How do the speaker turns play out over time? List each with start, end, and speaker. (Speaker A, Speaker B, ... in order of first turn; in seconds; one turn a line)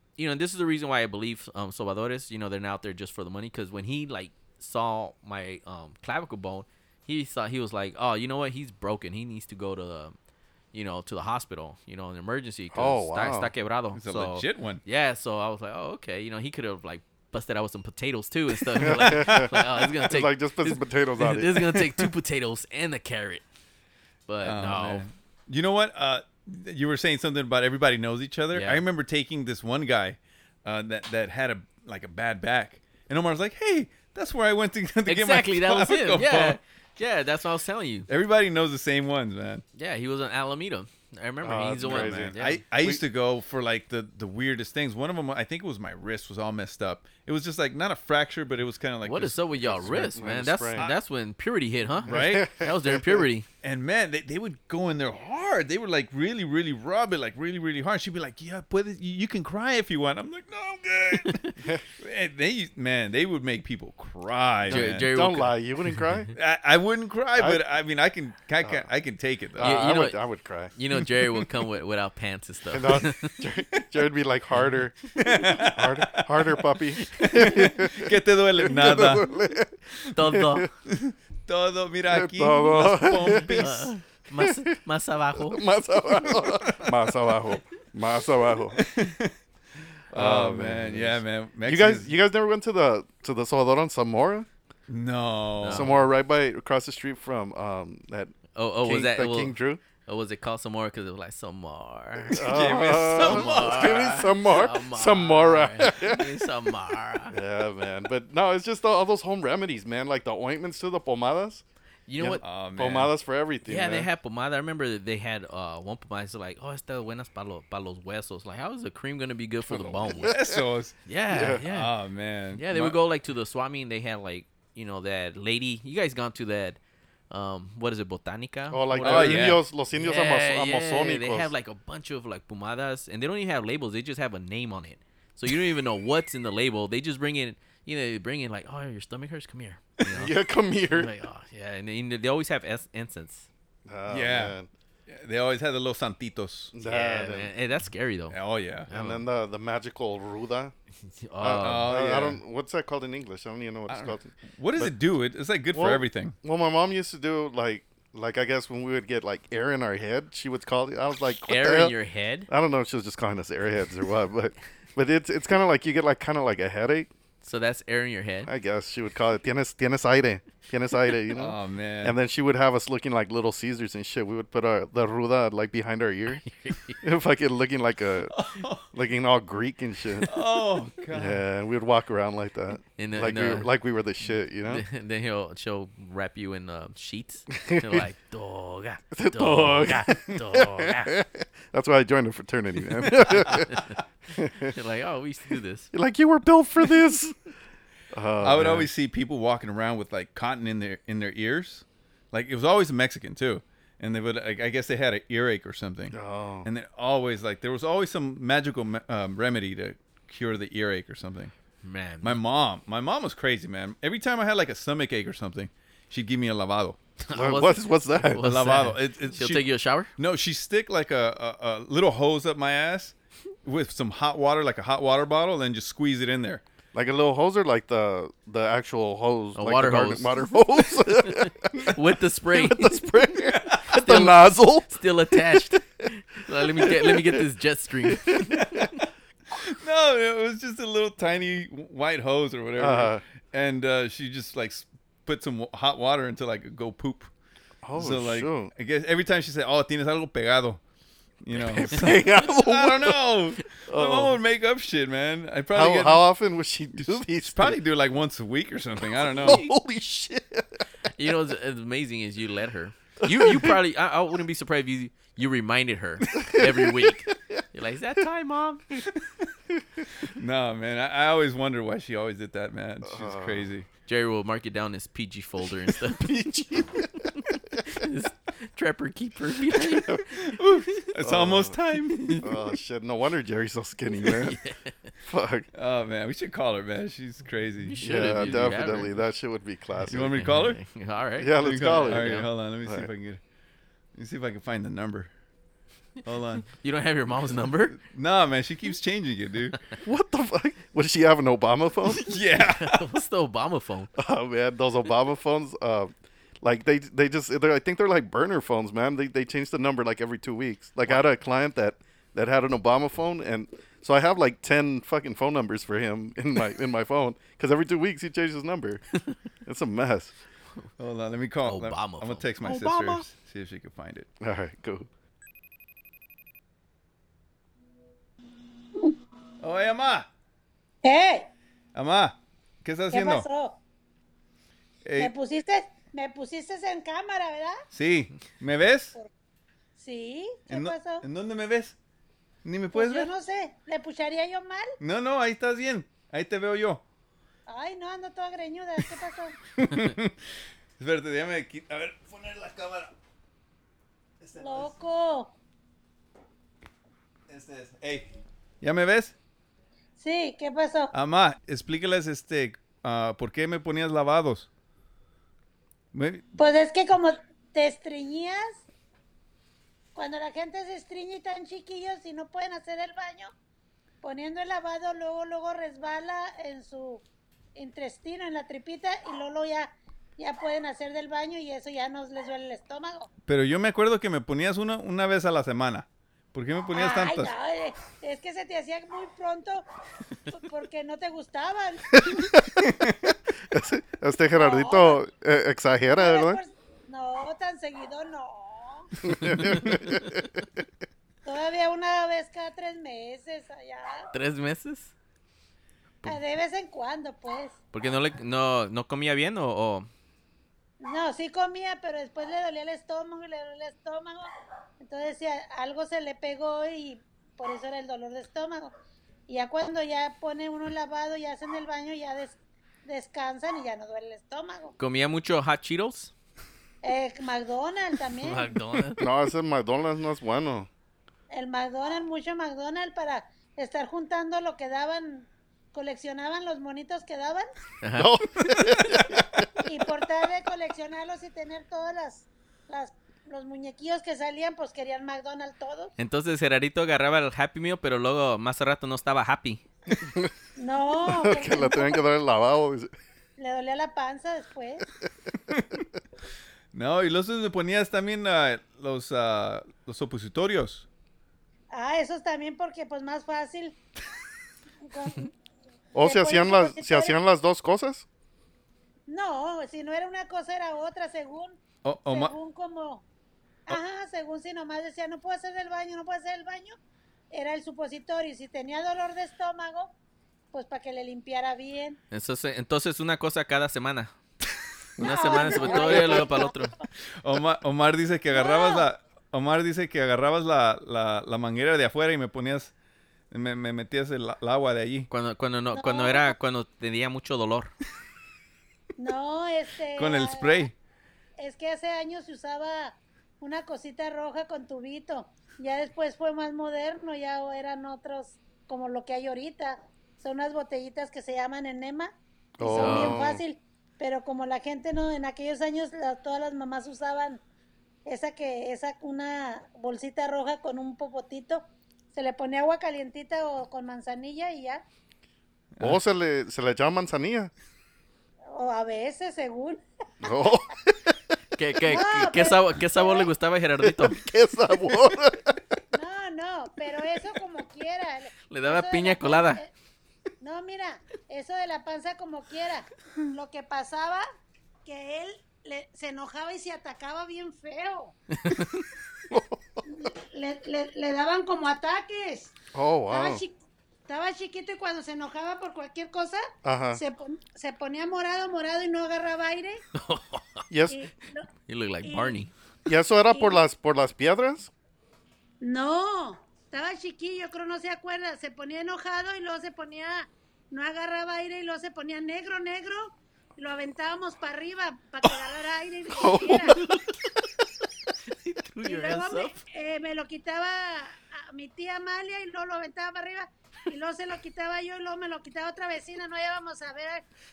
Speaker A: 0.2-10.2
Speaker A: 10.7-23.4
Speaker B: 12.7-13.5
Speaker C: 13.9-14.8
Speaker B: 18.8-22.1
Speaker C: 18.8-19.5
Speaker A: 24.3-25.0
Speaker C: 24.4-36.6
Speaker A: 28.5-28.8
Speaker A: 35.1-38.1
Speaker C: 38.1-39.6
Speaker A: 39.8-42.6
Speaker B: 41.4-43.0
Speaker C: 41.8-50.0
Speaker A: 49.0-53.5
Speaker B: 49.7-50.9
Speaker B: 52.0-53.2
Speaker C: 52.0-52.5
Speaker C: 53.6-61.5
Speaker A: 61.2-61.5
Speaker C: 62.0-65.1
Speaker B: 64.7-66.3
Speaker A: 64.7-65.6
Speaker C: 66.3-69.7
Speaker B: 67.4-67.6
Speaker B: 69.5-70.7
Speaker A: 69.6-70.2
Speaker A: 70.8-73.4
Speaker B: 72.7-80.7
Speaker C: 75.2-76.6
Speaker C: 77.2-79.2
Speaker A: 80.1-80.7
Speaker C: 80.9-83.9
Speaker B: 82.1-83.6
Speaker A: 83.2-85.7
Speaker B: 85.4-88.8
Speaker C: 88.8-89.3
Speaker C: 90.1-92.1
Speaker B: 90.1-94.5
Speaker C: 94.9-96.0
Speaker A: 95.6-96.1
Speaker B: 95.7-99.8
Speaker A: 98.5-107.4
Speaker B: 102.3-106.4
Speaker C: 102.3-104.2
Speaker B: 107.3-111.6
Speaker A: 112.1-112.4
Speaker B: 112.2-114.1
Speaker C: 112.4-113.1
Speaker A: 113.6-120.4
Speaker C: 120.0-121.0
Speaker B: 120.0-120.6
Speaker A: 121.1-121.9
Speaker B: 121.3-121.6
Speaker C: 121.6-123.0
Speaker A: 122.6-126.8
Speaker A: 127.3-140.3
Speaker B: 128.7-131.5
Speaker C: 129.0-129.6
Speaker B: 140.1-141.1
Speaker A: 140.9-143.5
Speaker B: 143.9-144.7
Speaker C: 144.1-144.6
Speaker C: 145.1-146.7
Speaker B: 146.7-147.5
Speaker A: 146.8-148.4
Speaker C: 148.3-148.9
Speaker A: 148.9-149.2
Speaker B: 148.9-150.7
Speaker A: 151.1-151.9
Speaker B: 151.4-154.9
Speaker C: 151.6-152.4
Speaker C: 153.9-156.4
Speaker B: 155.7-161.9
Speaker A: 161.5-162.5
Speaker B: 162.5-167.1
Speaker A: 167.4-168.5
Speaker B: 168.4-176.4
Speaker C: 171.3-172.2
Speaker A: 176.4-177.0
Speaker B: 177.0-178.3
Speaker C: 178.3-178.9
Speaker B: 178.9-180.3
Speaker C: 180.2-181.4
Speaker B: 181.1-184.8
Speaker A: 183.0-183.7
Speaker A: 184.7-191.2
Speaker B: 187.6-188.0
Speaker B: 189.1-193.7
Speaker A: 193.2-193.9
Speaker B: 194.4-194.8
Speaker A: 194.7-195.9
Speaker B: 195.9-197.3
Speaker B: 198.1-198.9
Speaker C: 198.4-211.5
Speaker B: 206.1-206.7
Speaker A: 211.8-212.4
Speaker C: 212.2-217.0
Speaker A: 217.3-220.1
Speaker B: 217.3-218.4
Speaker C: 218.4-219.6
Speaker C: 220.2-226.6
Speaker B: 226.9-231.9
Speaker A: 229.6-233.1
Speaker B: 232.5-234.9
Speaker A: 234.0-238.9
Speaker B: 236.6-237.4
Speaker B: 238.1-238.5
Speaker C: 238.5-238.9
Speaker C: 239.6-247.3
Speaker B: 242.8-243.2
Speaker B: 247.8-248.7
Speaker C: 247.9-250.8
Speaker C: 251.4-256.2
Speaker B: 251.6-253.2
Speaker B: 253.9-254.4
Speaker B: 255.7-257.8
Speaker C: 257.1-259.6
Speaker B: 259.2-260.7
Speaker A: 261.2-268.8
Speaker B: 263.2-263.7
Speaker B: 266.4-267.4
Speaker C: 269.1-269.4
Speaker C: 270.4-273.9
Speaker B: 273.0-273.7
Speaker A: 274.1-276.4
Speaker B: 276.1-277.2
Speaker A: 277.4-280.4
Speaker B: 279.9-280.2
Speaker C: 280.4-282.4
Speaker B: 281.2-281.8
Speaker A: 282.1-282.5
Speaker B: 282.4-284.6
Speaker A: 284.2-284.9
Speaker B: 285.2-285.7
Speaker C: 285.7-288.8
Speaker A: 287.9-289.2
Speaker B: 288.0-290.3
Speaker C: 290.1-290.8
Speaker A: 290.1-292.5
Speaker B: 291.4-293.1
Speaker C: 291.6-293.4
Speaker C: 294.1-295.3
Speaker C: 296.2-296.7
Speaker A: 296.7-297.9
Speaker C: 297.9-299.8
Speaker B: 300.0-302.3
Speaker C: 302.2-303.0
Speaker A: 302.6-304.1
Speaker B: 304.1-319.0
Speaker B: 319.6-320.4
Speaker C: 321.0-324.3
Speaker A: 321.6-323.2
Speaker B: 324.4-325.1
Speaker C: 329.6-330.3
Speaker D: 331.0-331.5
Speaker C: 331.9-333.5
Speaker D: 333.1-333.8
Speaker C: 335.1-335.3
Speaker D: 335.2-337.8
Speaker C: 337.9-339.1
Speaker D: 340.0-341.2
Speaker C: 340.7-341.9
Speaker C: 342.6-343.3
Speaker D: 342.9-344.9
Speaker C: 345.0-347.0
Speaker D: 347.7-349.6
Speaker C: 349.8-350.4
Speaker C: 351.0-353.1
Speaker C: 354.4-354.9
Speaker D: 354.6-355.5
Speaker C: 357.5-358.3
Speaker C: 358.8-359.4
Speaker D: 360.2-361.1
Speaker C: 361.1-364.7
Speaker C: 366.1-366.4
Speaker D: 366.6-368.8
Speaker D: 370.1-373.5
Speaker D: 374.2-377.2
Speaker D: 377.8-383.3
Speaker C: 383.5-387.5
Speaker D: 386.9-389.9
Speaker D: 390.5-392.0
Speaker B: 393.7-396.6
Speaker D: 394.5-395.2
Speaker D: 396.1-399.1
Speaker B: 399.2-400.2
Speaker A: 399.4-400.4
Speaker D: 401.4-404.3
Speaker A: 404.3-405.1
Speaker D: 406.2-407.8
Speaker A: 407.9-410.1
Speaker D: 411.0-418.9
Speaker D: 419.5-425.0
Speaker A: 425.0-426.3
Speaker D: 427.0-428.7
Speaker A: 428.4-429.2
Speaker B: 429.2-430.9
Speaker D: 431.5-437.6
Speaker A: 438.0-438.3
Speaker B: 438.1-439.6
Speaker D: 439.9-446.1
Speaker A: 446.2-449.9
Speaker D: 450.8-452.2
Speaker B: 451.2-453.1
Speaker D: 453.6-455.1
Speaker C: 456.9-461.1
Speaker D: 461.9-464.0
Speaker D: 465.1-465.5
Speaker D: 466.1-467.4
Speaker B: 466.1-468.2
Speaker D: 469.3-473.2
Speaker C: 472.0-472.6
Speaker D: 473.9-477.0
Speaker D: 477.5-480.1
Speaker D: 480.7-482.2
Speaker A: 482.3-484.4
Speaker A: 485.2-486.9
Speaker D: 485.2-487.0
Speaker C: 485.5-486.4
Speaker C: 487.4-492.9
Speaker D: 488.5-489.1
Speaker C: 493.5-495.3
Speaker A: 495.3-497.9
Speaker D: 495.9-496.5
Speaker D: 499.2-500.9
Speaker C: 500.1-500.9
Speaker D: 501.6-517.6
Speaker B: 512.8-513.6
Speaker A: 513.0-513.4
Speaker D: 518.2-525.0
Speaker B: 526.0-527.7
Speaker D: 528.7-530.0
Speaker B: 530.4-531.4
Speaker A: 531.8-534.4
Speaker D: 532.1-533.5
Speaker B: 534.0-535.8
Speaker D: 536.1-539.9
Speaker A: 538.7-539.8
Speaker D: 540.6-544.4
Speaker D: 545.0-548.4
Speaker A: 548.7-549.0
Speaker B: 549.5-549.7
Speaker D: 550.1-552.7
Speaker B: 552.9-553.6
Speaker D: 553.3-553.8
Speaker D: 554.3-560.0
Speaker B: 556.8-557.2
Speaker A: 560.1-560.8
Speaker B: 560.9-561.2
Speaker D: 561.1-561.7
Speaker A: 561.9-562.7
Speaker D: 562.2-562.6
Speaker B: 563.1-564.9
Speaker D: 563.5-563.8
Speaker D: 565.8-577.0
Speaker B: 576.4-577.0
Speaker A: 578.5-579.7
Speaker D: 579.0-587.4